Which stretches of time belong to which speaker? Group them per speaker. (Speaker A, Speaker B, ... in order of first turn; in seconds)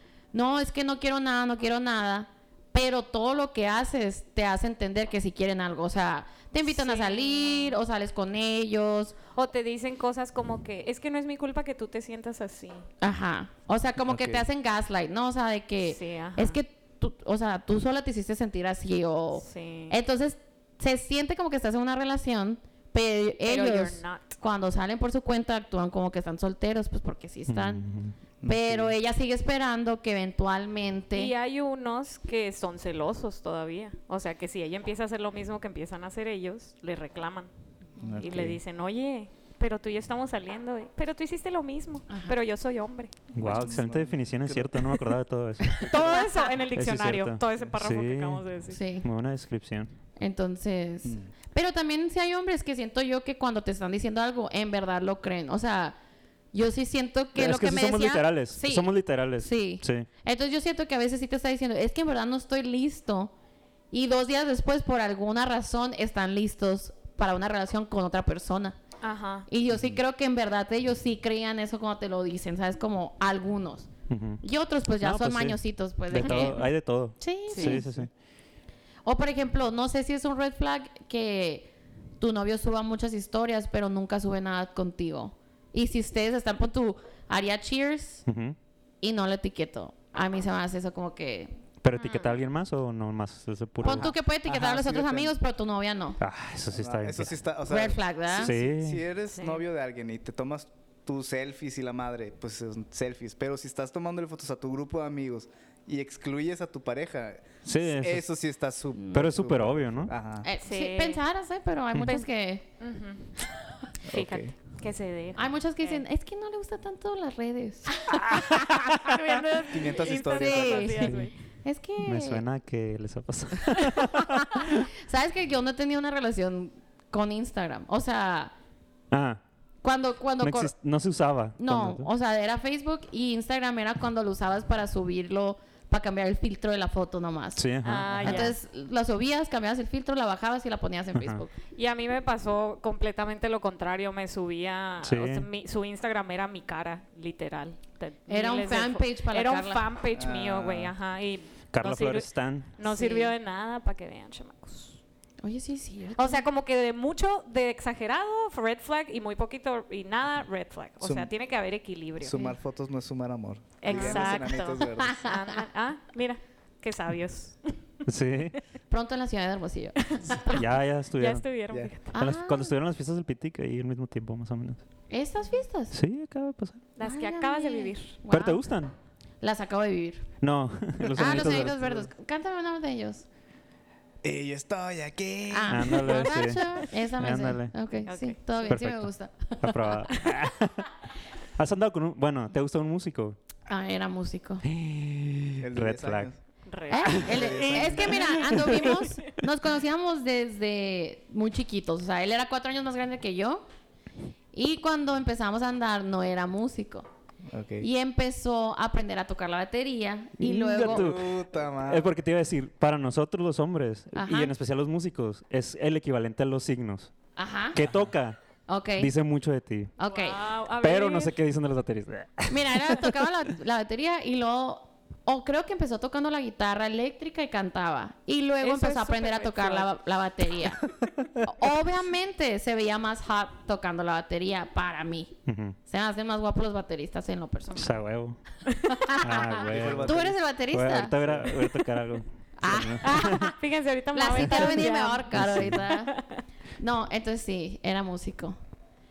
Speaker A: 0.3-9.2, 13.0-27.8, 28.5-31.3, 42.1-42.4, 48.7-49.1, 50.2-56.0, 56.5-63.3, 63.9-68.8, 69.5-73.9, 74.4-76.7, 77.2-77.8, 79.0-88.2, 89.0-91.6, 93.8-96.2, 97.7-98.5, 110.4-112.7, 115.4-119.1, 120.3-122.4, 124.1-128.5, 129.8-130.7, 131.6-137.6, 138.2-141.5, 148.3-149.8, 152.8-153.3, 155.4-156.4, 163.9-164.5, 165.0-165.3, 168.9-170.6, 172.1-172.7, 175.1-176.0, 177.0-178.6, 179.4-180.3, 181.2-183.3, 185.5-190.0, 193.7-194.6, 196.9-203.6, 204.5-207.1, 207.8-211.2, 214.1-214.5, 217.4-217.8, 218.7-219.1, 220.0-220.4, 222.5-230.8, 231.4-235.3, 235.9-237.9, 238.8-241.2, 242.6-243.6, 244.1-246.1, 246.8-248.6
Speaker B: 6.7-7.8, 9.3-12.9, 15.9-16.6, 19.4-20.0, 23.4-24.3, 31.1-37.5, 38.2-43.1, 45.8-48.8, 69.0-69.5, 76.2-76.6, 77.5-77.8, 92.0-92.4, 99.3-99.7, 110.6-111.2, 112.8-113.4, 114.1-116.0, 118.1-121.3, 137.8-138.6, 141.7-155.0, 156.2-162.4, 163.8-167.7, 170.1-170.6, 171.2-172.1, 177.0-178.2, 188.1-188.7, 196.7-199.0, 220.1-221.3, 228.6-229.9, 243.0-246.4
Speaker C: 14.1-14.4, 28.4-28.9, 38.0-38.6, 43.4-45.0, 51.0-51.3, 93.8-95.3, 96.7-110.5, 114.1-114.5, 119.7-121.1, 150.1-150.9, 161.0-161.3, 162.2-165.2, 181.1-182.1, 184.2-186.3, 195.6-196.4, 197.1-198.4, 207.5-207.9, 210.8-212.1, 239.6-240.4, 241.2-241.5
Speaker D: 27.5-28.2, 43.3-46.2, 46.7-48.4, 49.0-49.9, 57.4-60.1, 74.1-74.4, 75.0-78.1, 88.3-88.6, 91.8-94.1, 96.2-97.4, 98.3-99.0, 107.7-108.3, 109.1-110.1, 122.0-124.9, 129.1-129.4, 130.4-132.1, 137.6-138.6, 141.2-141.4, 145.0-145.5, 151.7-152.7, 168.1-168.6, 170.4-171.5, 172.1-174.8, 175.9-176.8, 178.3-178.9, 180.4-181.8, 185.7-187.7, 188.7-190.9, 191.6-193.4, 194.6-196.3, 198.5-199.0, 210.4-217.1, 217.7-218.4, 219.0-219.9, 220.8-223.2, 235.5-235.8, 237.7-238.4, 239.2-243.5, 244.4-244.8, 245.3-245.8